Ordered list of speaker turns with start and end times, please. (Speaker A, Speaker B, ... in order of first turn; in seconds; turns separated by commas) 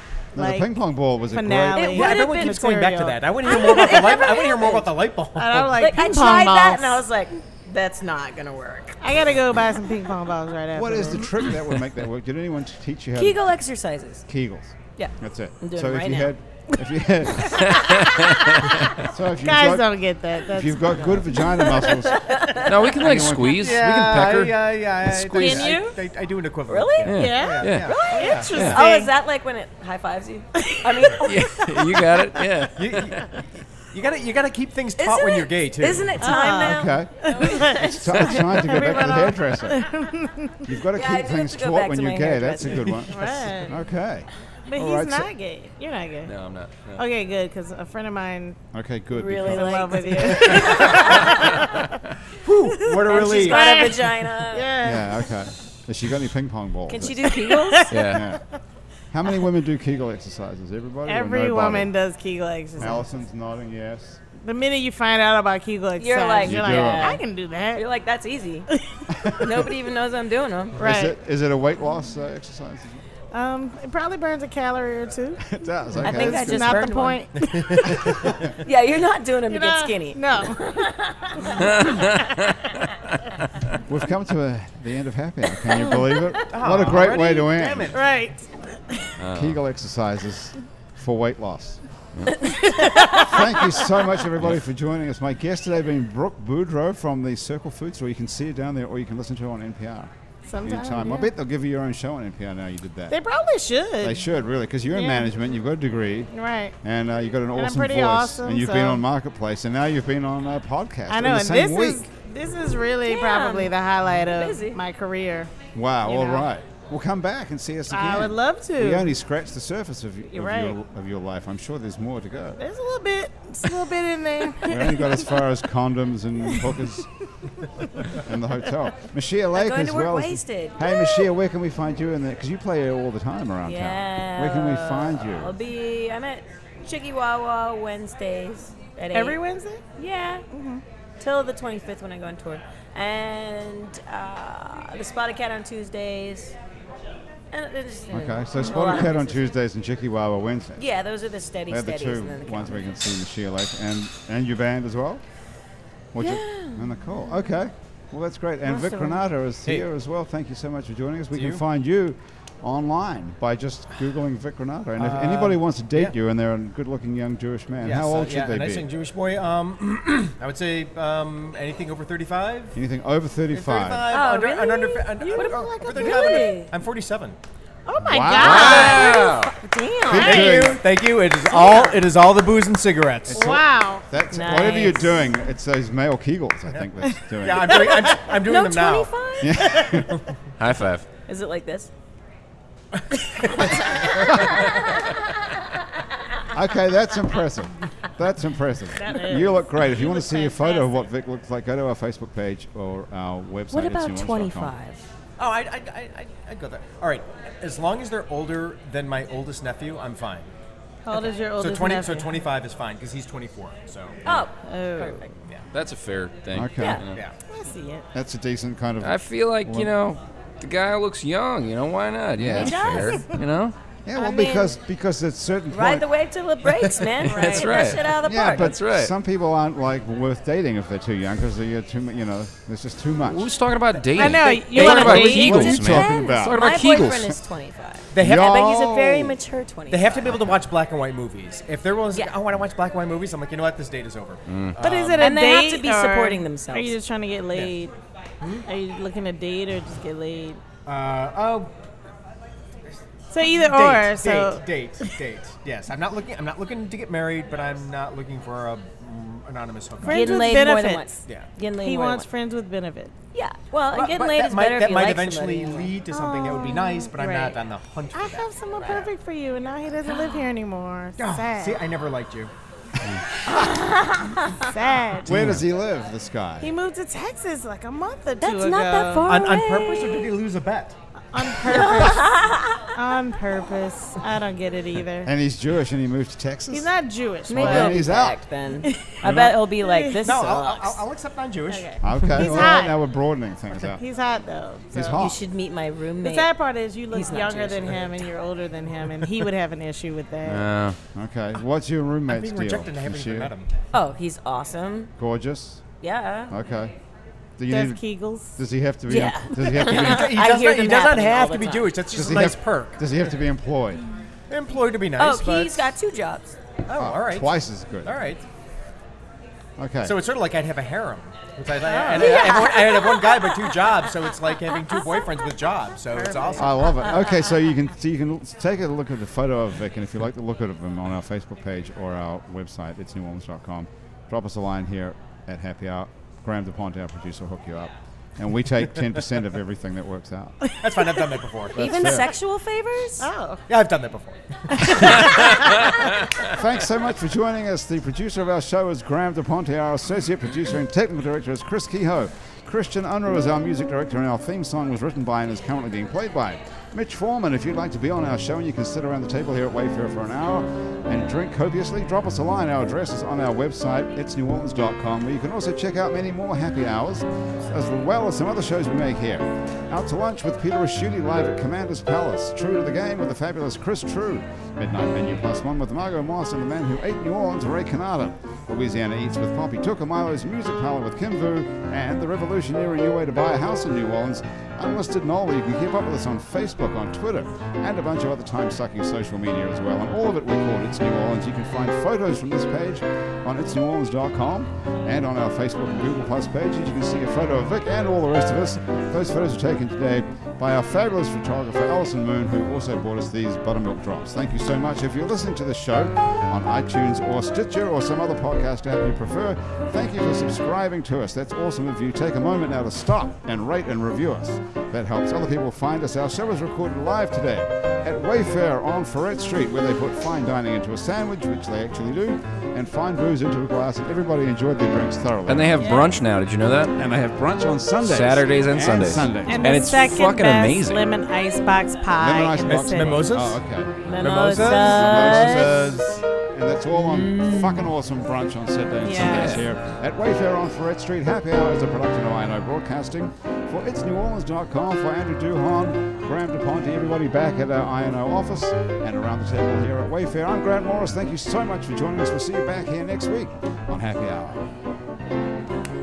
Speaker A: 0.3-0.7, Speaker B: 0.3-2.0, Speaker A: 1.3-4.4, Speaker C: 1.8-2.6, Speaker D: 1.9-5.8, Speaker C: 3.4-4.9, Speaker A: 5.3-7.0, Speaker C: 5.8-9.0, Speaker A: 9.0-11.5, Speaker B: 10.7-13.5, Speaker C: 13.2-14.3, Speaker B: 14.3-17.8, Speaker C: 15.0-16.3, Speaker A: 17.4-22.6, Speaker E: 17.5-19.0, Speaker B: 19.0-22.3, Speaker C: 21.9-23.4, Speaker E: 22.6-25.8, Speaker B: 23.0-23.6, Speaker D: 23.6-28.7, Speaker A: 25.4-26.0, Speaker C: 26.7-31.6, Speaker E: 27.1-28.0, Speaker A: 27.1-29.1, Speaker E: 28.5-28.8, Speaker A: 30.6-32.2, Speaker E: 31.2-33.1, Speaker D: 32.8-36.3, Speaker C: 35.0-39.1, Speaker A: 36.2-40.7, Speaker B: 36.4-39.9, Speaker B: 40.6-45.3, Speaker C: 40.9-43.1, Speaker A: 43.0-43.8, Speaker A: 44.7-46.3, Speaker E: 46.2-47.0, Speaker A: 47.0-48.6, Speaker B: 48.7-50.7, Speaker C: 49.1-51.6, Speaker A: 49.4-51.9, Speaker D: 50.7-51.1, Speaker D: 52.4-53.9, Speaker A: 52.7-55.4, Speaker C: 53.1-54.7, Speaker B: 54.8-57.4, Speaker C: 56.9-58.0, Speaker A: 57.3-58.4, Speaker E: 57.9-58.3, Speaker B: 58.1-58.4, Speaker B: 59.1-61.9, Speaker A: 61.1-63.0, Speaker B: 62.8-64.2, Speaker A: 64.4-67.8, Speaker C: 66.0-68.7, Speaker B: 66.4-67.1, Speaker B: 69.1-69.7, Speaker C: 69.2-70.8, Speaker A: 70.8-71.2, Speaker B: 70.8-73.0, Speaker A: 73.3-78.4, Speaker B: 75.5-77.0, Speaker C: 76.0-82.0, Speaker D: 77.4-78.4, Speaker A: 79.5-80.6, Speaker A: 81.4-81.7, Speaker E: 81.7-83.3, Speaker B: 83.8-88.0, Speaker A: 85.6-89.2, Speaker D: 86.5-88.0, Speaker E: 89.2-89.6, Speaker B: 89.3-91.8, Speaker A: 92.4-94.0, Speaker B: 93.0-100.1, Speaker A: 100.5-101.3, Speaker B: 100.6-103.2, Speaker A: 103.1-104.3, Speaker B: 104.0-112.0, Speaker A: 104.9-105.3, Speaker A: 106.3-106.8, Speaker A: 107.5-109.0, Speaker A: 111.1-115.5, Speaker C: 113.1-114.8, Speaker B: 115.7-122.6, Speaker A: 116.0-116.5, Speaker A: 117.9-119.1, Speaker A: 120.3-120.8, Speaker A: 122.6-125.4, Speaker B: 124.6-127.1, Speaker A: 126.5-126.8, Speaker B: 128.1-135.5, Speaker C: 129.6-130.9, Speaker C: 133.6-139.4, Speaker A: 139.1-139.8, Speaker C: 140.0-140.4, Speaker A: 140.5-140.8, Speaker C: 141.2-146.6, Speaker C: 147.5-149.4, Speaker B: 148.1-150.8, Speaker C: 150.8-152.9, Speaker B: 151.7-155.2, Speaker B: 156.1-168.9, Speaker C: 156.2-157.0, Speaker C: 158.7-159.2, Speaker D: 161.3-161.6, Speaker D: 165.0-166.2, Speaker D: 167.8-172.8, Speaker B: 172.8-174.1, Speaker D: 173.5-177.4, Speaker C: 174.1-176.7, Speaker A: 175.2-176.6, Speaker A: 177.9-179.4, Speaker B: 178.0-179.1, Speaker C: 178.3-180.7, Speaker E: 178.3-179.5, Speaker B: 180.1-180.8, Speaker D: 180.1-183.5, Speaker C: 181.5-182.0, Speaker B: 183.3-188.1, Speaker A: 183.3-184.1, Speaker C: 184.3-185.3, Speaker D: 187.4-189.1, Speaker A: 187.7-188.2, Speaker C: 188.4-189.8, Speaker B: 189.4-190.2, Speaker D: 189.9-190.3, Speaker E: 190.6-191.1, Speaker C: 191.3-191.9, Speaker D: 192.9-194.7, Speaker C: 193.6-194.6, Speaker B: 196.5-204.7, Speaker A: 199.0-200.9, Speaker C: 203.7-205.0, Speaker D: 205.4-210.5, Speaker A: 211.1-212.4, Speaker D: 211.6-214.3, Speaker C: 214.2-215.4, Speaker A: 214.7-215.3, Speaker E: 215.7-217.2, Speaker B: 216.5-217.0, Speaker C: 216.8-217.1, Speaker A: 217.5-218.1, Speaker B: 218.1-219.9, Speaker E: 219.0-223.8, Speaker B: 222.4-222.9, Speaker C: 222.6-223.2, Speaker A: 222.6-223.4, Speaker B: 224.1-226.1, Speaker C: 224.2-224.8, Speaker C: 225.7-228.7, Speaker D: 226.9-227.5, Speaker E: 227.3-229.1, Speaker B: 228.2-233.5, Speaker E: 233.3-237.4, Speaker A: 234.2-235.7, Speaker C: 234.3-240.5, Speaker B: 234.7-236.7, Speaker D: 238.1-239.4, Speaker B: 238.2-238.8, Speaker D: 239.9-245.3, Speaker E: 244.5-244.8, Speaker A: 244.8-247.9, Speaker C: 245.2-246.9, Speaker D: 248.4-248.7, Speaker A: 248.7-250.6, Speaker D: 250.8-251.7, Speaker A: 253.3-255.2, Speaker D: 253.5-261.5, Speaker A: 260.0-261.2, Speaker C: 260.0-262.3, Speaker A: 261.8-263.1, Speaker C: 263.3-265.9, Speaker D: 263.9-269.1, Speaker A: 266.1-267.6, Speaker A: 268.1-271.9, Speaker C: 270.1-270.4, Speaker D: 271.2-272.5, Speaker C: 273.5-274.7, Speaker A: 274.6-275.4, Speaker B: 275.2-276.7, Speaker A: 276.6-279.3, Speaker C: 278.4-280.3, Speaker D: 279.2-280.9, Speaker A: 281.3-285.3, Speaker C: 281.7-282.9, Speaker B: 285.2-286.9, Speaker A: 286.7-288.0, Speaker C: 287.5-291.0, Speaker B: 287.5-288.4, Speaker A: 288.8-289.1, Speaker B: 289.2-289.6, Speaker A: 289.7-290.4, Speaker D: 290.2-292.5, Speaker A: 291.7-293.0, Speaker B: 292.0-294.0, Speaker A: 293.8-295.2, Speaker B: 294.9-295.4, Speaker C: 295.2-296.6, Speaker A: 296.2-300.7, Speaker C: 297.1-298.3, Speaker E: 300.4-301.0, Speaker B: 301.1-303.5, Speaker D: 302.3-303.7, Speaker C: 303.9-305.1, Speaker B: 305.2-305.8, Speaker C: 306.0-306.5, Speaker B: 306.5-306.9, Speaker B: 307.6-308.0, Speaker A: 307.7-308.6, Speaker B: 308.6-310.4, Speaker C: 309.1-312.0, Speaker D: 309.8-313.1, Speaker B: 312.1-314.1, Speaker D: 314.5-315.9, Speaker C: 315.2-316.6, Speaker D: 316.9-317.5, Speaker B: 317.0-318.2, Speaker D: 318.0-318.4, Speaker B: 319.8-320.2, Speaker D: 320.0-326.9, Speaker A: 321.8-322.7, Speaker C: 322.1-323.7, Speaker A: 326.1-327.4, Speaker B: 326.6-340.6, Speaker D: 340.8-342.1, Speaker B: 341.7-342.3, Speaker C: 341.7-343.3, Speaker A: 343.2-343.6, Speaker D: 343.7-345.2, Speaker A: 344.8-345.9, Speaker B: 346.4-425.9, Speaker E: 425.5-427.0, Speaker B: 427.0-429.7, Speaker E: 428.0-431.1, Speaker A: 429.5-433.4, Speaker B: 432.2-454.7, Speaker D: 432.7-433.6, Speaker C: 434.1-435.9, Speaker D: 434.2-436.0, Speaker C: 436.9-437.9, Speaker A: 439.0-439.7